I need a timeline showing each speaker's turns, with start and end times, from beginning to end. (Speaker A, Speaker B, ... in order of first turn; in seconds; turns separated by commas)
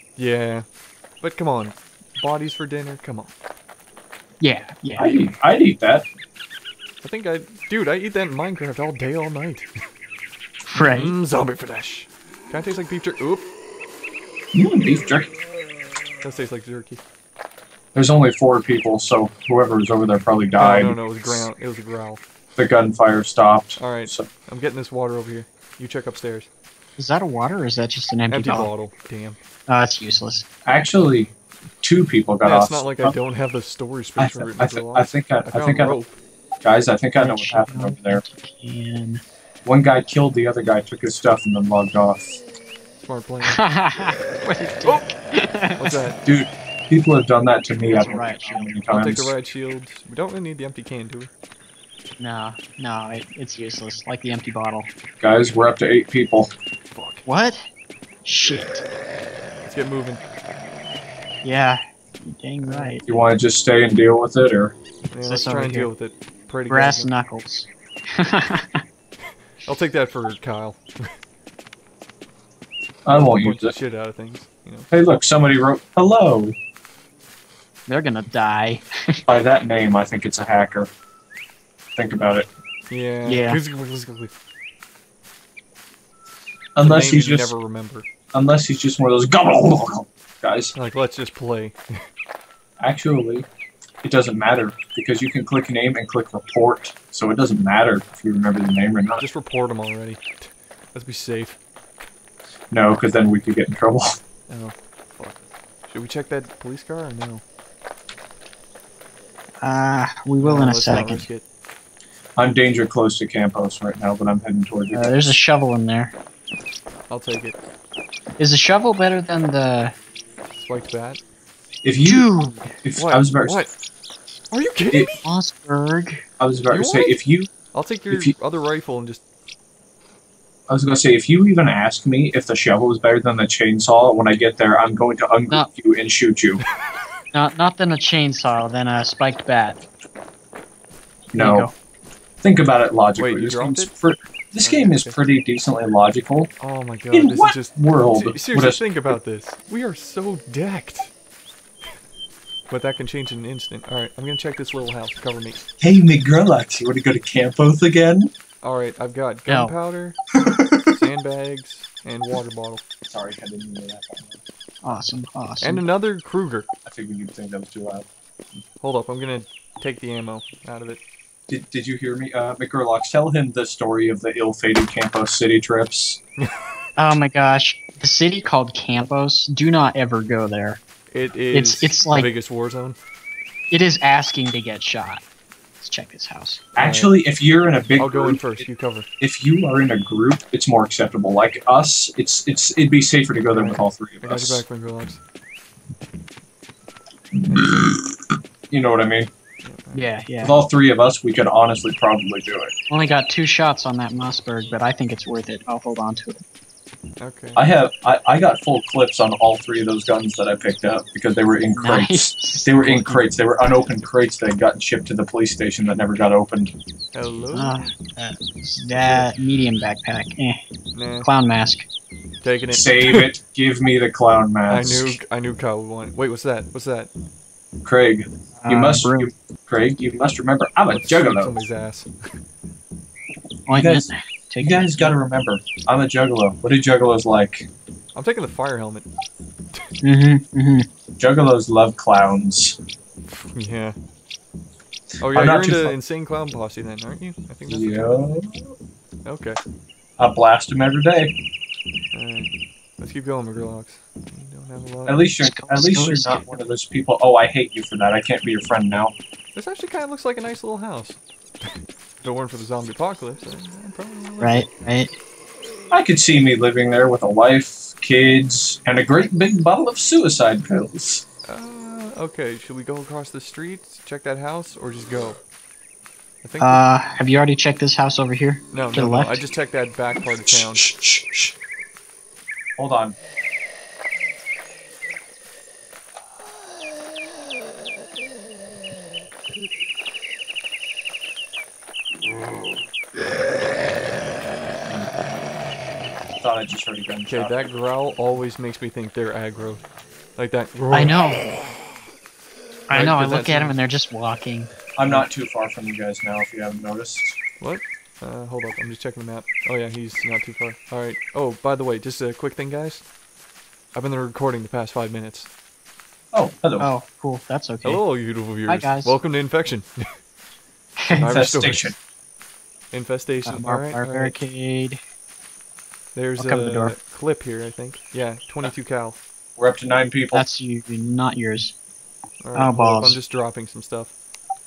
Speaker A: 0.2-0.7, Speaker A: 1.2-3.3, Speaker B: 4.4-5.2, Speaker C: 5.0-6.1, Speaker A: 7.0-9.7, Speaker B: 10.7-11.2, Speaker A: 10.8-13.5, Speaker C: 14.5-15.3, Speaker A: 16.2-17.0, Speaker C: 17.9-21.5, Speaker A: 20.6-22.2, Speaker C: 22.6-24.3, Speaker A: 23.8-26.5, Speaker B: 27.0-28.7, Speaker A: 28.3-29.4, Speaker B: 29.7-30.5, Speaker C: 30.7-33.1, Speaker A: 32.4-36.2, Speaker C: 34.2-36.0, Speaker C: 36.6-38.2, Speaker B: 37.2-39.2, Speaker C: 39.6-42.4, Speaker A: 43.0-43.6, Speaker B: 43.4-45.9, Speaker A: 45.8-46.2, Speaker C: 46.2-49.3, Speaker A: 47.9-51.3, Speaker B: 47.9-48.7, Speaker B: 52.2-54.9, Speaker C: 55.2-56.5, Speaker A: 56.9-57.3, Speaker B: 57.2-57.7, Speaker B: 58.2-58.9, Speaker A: 59.6-60.2, Speaker B: 61.4-63.1, Speaker A: 62.6-63.0, Speaker C: 63.0-64.7, Speaker A: 65.1-67.1, Speaker B: 65.2-65.9, Speaker B: 66.7-68.8, Speaker A: 69.6-71.1, Speaker C: 73.0-73.8, Speaker A: 73.1-74.9, Speaker C: 74.9-76.6, Speaker B: 77.9-79.2, Speaker C: 79.3-80.9, Speaker C: 82.0-82.5, Speaker A: 82.9-84.3, Speaker B: 83.3-83.6, Speaker C: 86.8-87.5, Speaker A: 86.8-88.1, Speaker C: 88.3-90.8, Speaker A: 90.8-91.8, Speaker C: 92.8-93.5, Speaker C: 94.0-99.2, Speaker A: 99.2-101.6, Speaker C: 102.7-104.2, Speaker A: 104.5-107.4, Speaker B: 109.6-111.2, Speaker A: 110.4-111.4, Speaker C: 112.4-115.4, Speaker B: 114.9-116.2, Speaker A: 117.1-117.5, Speaker B: 118.4-119.9, Speaker A: 120.6-121.2, Speaker C: 121.8-123.6, Speaker B: 122.0-122.8, Speaker A: 123.0-123.7, Speaker A: 124.5-125.3, Speaker B: 125.2-126.2, Speaker C: 126.4-127.5, Speaker A: 126.7-127.2, Speaker A: 127.7-129.2, Speaker C: 130.7-136.6, Speaker B: 137.3-139.8, Speaker C: 141.3-141.7, Speaker B: 141.4-141.7, Speaker C: 142.4-146.5, Speaker A: 143.2-143.9, Speaker A: 144.6-145.2, Speaker A: 146.6-151.1, Speaker C: 147.1-149.2, Speaker A: 152.7-155.6, Speaker C: 155.8-158.3, Speaker A: 158.6-160.2, Speaker B: 159.5-159.7, Speaker C: 160.3-160.9, Speaker A: 160.9-162.8, Speaker C: 163.1-164.4, Speaker B: 164.8-165.8, Speaker A: 165.6-166.7, Speaker C: 166.9-168.1, Speaker A: 168.8-171.0, Speaker C: 171.5-176.2, Speaker B: 177.0-180.8, Speaker A: 181.1-183.0, Speaker B: 181.5-182.3, Speaker B: 183.7-185.2, Speaker B: 185.8-186.6, Speaker C: 186.8-188.7, Speaker A: 186.8-187.2, Speaker A: 188.0-189.1, Speaker C: 189.2-194.7, Speaker B: 193.5-193.8, Speaker A: 194.2-195.2, Speaker C: 197.4-198.0, Speaker A: 197.5-197.8, Speaker C: 198.7-199.3, Speaker A: 199.6-200.1, Speaker B: 199.9-200.6, Speaker C: 200.4-202.7, Speaker B: 202.9-206.4, Speaker A: 207.2-207.6, Speaker C: 207.6-216.7, Speaker B: 211.7-212.9, Speaker A: 212.8-213.3, Speaker A: 217.1-217.8, Speaker B: 217.5-220.6, Speaker A: 219.0-219.2, Speaker A: 220.9-221.3, Speaker B: 221.2-221.9, Speaker A: 222.4-223.3, Speaker C: 222.7-225.2, Speaker A: 224.7-227.1, Speaker C: 227.8-231.6, Speaker B: 228.6-229.3, Speaker A: 230.9-232.3, Speaker B: 233.7-235.2, Speaker C: 233.7-234.1, Speaker C: 234.6-237.7, Speaker A: 238.2-239.1, Speaker B: 240.0-240.9, Speaker C: 241.2-242.8, Speaker A: 243.3-244.0, Speaker A: 245.2-248.3, Speaker C: 245.3-245.9, Speaker C: 247.7-248.7, Speaker A: 249.2-249.6, Speaker C: 250.2-251.3, Speaker A: 252.1-255.3, Speaker C: 255.1-259.1, Speaker B: 255.4-256.5, Speaker A: 259.6-264.7, Speaker B: 264.4-265.1, Speaker C: 265.9-271.2, Speaker A: 271.5-275.4, Speaker A: 276.4-276.8, Speaker B: 276.6-279.4, Speaker A: 278.7-280.9, Speaker C: 280.5-281.5, Speaker C: 282.8-283.1, Speaker C: 296.4-297.6, Speaker A: 297.3-299.8, Speaker A: 300.4-301.2, Speaker B: 300.9-301.4, Speaker B: 302.9-304.7, Speaker A: 302.9-303.8, Speaker C: 305.0-307.4, Speaker A: 307.6-313.0, Speaker A: 313.9-315.5, Speaker C: 316.3-316.9, Speaker B: 316.8-318.0, Speaker A: 317.8-320.0, Speaker B: 318.7-319.2, Speaker B: 321.0-321.3, Speaker A: 321.1-321.9, Speaker C: 321.2-322.0, Speaker A: 322.9-324.4, Speaker B: 323.5-325.0, Speaker A: 326.1-329.2, Speaker B: 326.4-327.0, Speaker C: 329.6-330.4, Speaker B: 330.3-331.8, Speaker A: 332.4-334.1, Speaker B: 332.5-333.2